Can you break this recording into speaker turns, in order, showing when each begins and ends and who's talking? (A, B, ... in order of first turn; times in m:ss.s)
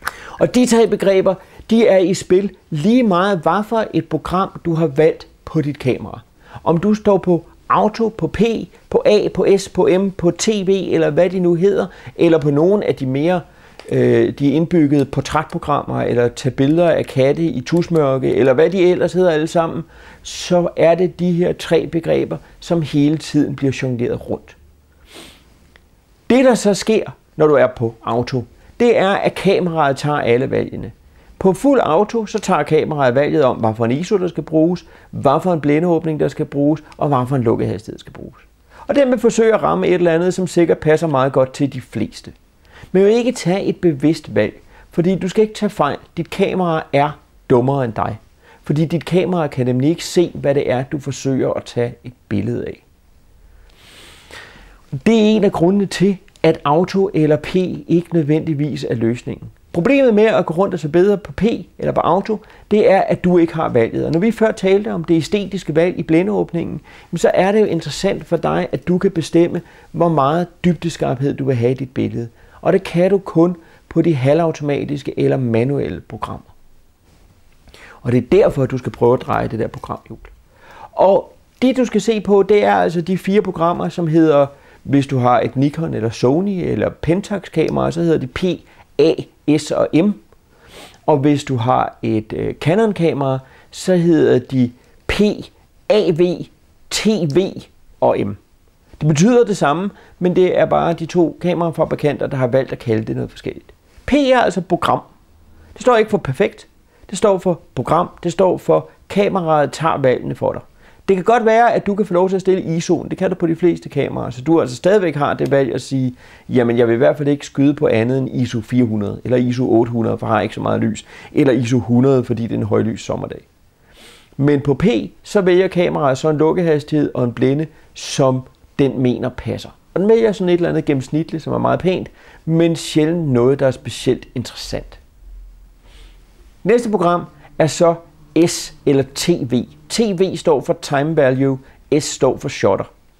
0:00.4-0:24.6 A
0:26.3-0:42.3 A
0:42.9-0:52.8 A
0:55.0-1:16.5 A
1:18.0-1:20.3 A
1:20.9-1:30.2 A
1:31.1-1:38.4 A
1:39.0-1:45.1 A
1:45.7-2:03.4 A
2:04.4-2:15.0 A
2:16.6-2:22.9 A